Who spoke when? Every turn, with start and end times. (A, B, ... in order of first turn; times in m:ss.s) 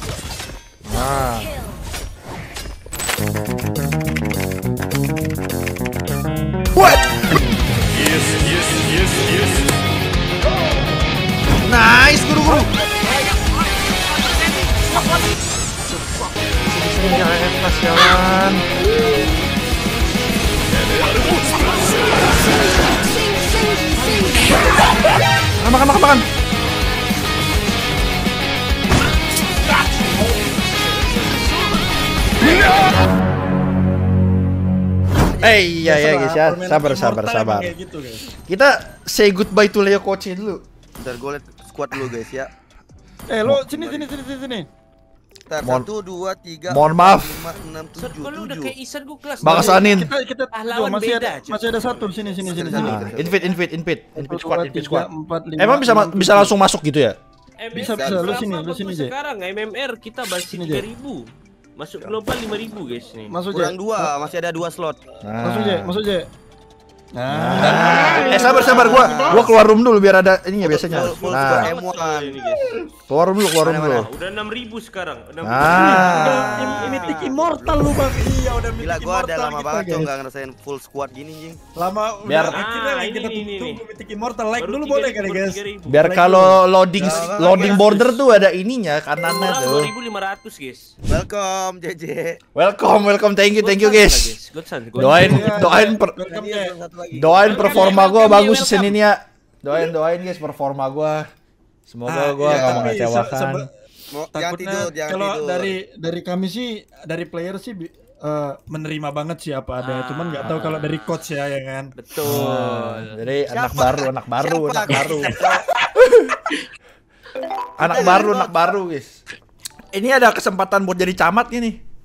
0:00.8-0:01.6 A
0:06.7-0:07.2 A
0:11.6-0:12.7 A
0:16.7-0:18.6 A
0:25.6-0:26.2 A
0:30.1-0:30.5 B
0:35.3-0:35.6 C
0:35.4-0:37.7 A
0:35.8-0:38.3 B
0:38.5-0:40.6 A
0:41.0-0:42.5 C
0:43.3-0:44.7 B
0:43.6-0:44.1 C
0:45.5-0:48.7 C
0:45.6-0:45.9 A
0:46.7-0:47.4 A
0:48.0-0:49.9 D
0:49.4-0:50.1 A
0:49.4-0:53.2 B
0:50.5-0:52.4 D
0:52.4-0:53.4 C
0:52.7-0:55.1 A
0:54.2-0:56.6 B
0:55.6-0:57.2 A
0:57.6-1:01.2 D
0:57.7-0:59.1 B
0:57.7-0:58.5 C
1:00.4-1:00.8 B
1:01.8-1:03.3 D
1:03.3-1:04.1 B
1:03.5-1:05.0 C
1:05.2-1:05.9 A
1:05.4-1:06.3 B
1:07.1-1:09.5 B
1:07.3-1:11.7 A
1:07.6-1:09.6 C
1:10.6-1:12.5 C
1:10.9-1:12.6 D
1:13.1-1:14.1 A
1:13.6-1:14.1 C
1:14.1-1:17.0 D
1:15.4-1:16.8 A
1:15.7-1:20.1 B
1:15.9-1:17.9 C
1:18.8-1:21.6 C
1:21.8-1:26.6 B
1:22.3-1:22.6 A
1:22.5-1:23.8 D
1:24.6-1:26.0 D
1:25.9-1:29.9 A
1:27.0-1:28.0 C
1:27.0-1:27.9 D
1:29.2-1:30.9 D
1:31.1-1:32.4 C
1:32.6-1:34.4 A
1:33.6-1:35.2 D
1:35.0-1:36.1 A
1:35.0-1:36.7 B
1:35.0-1:38.0 C
1:37.1-1:41.2 A
1:37.5-1:38.3 B
1:37.7-1:38.8 D
1:41.9-1:43.7 A
1:42.0-1:43.7 B
1:42.4-1:43.0 C
1:44.1-1:45.8 C
1:44.3-1:52.6 B
1:49.8-1:50.6 D
1:50.4-1:50.8 A
1:52.0-1:52.8 D
1:52.2-1:55.4 A
1:53.5-1:55.7 C
1:55.1-1:55.7 B
1:57.8-1:59.2 A
1:57.8-1:58.7 C
1:59.9-2:01.8 A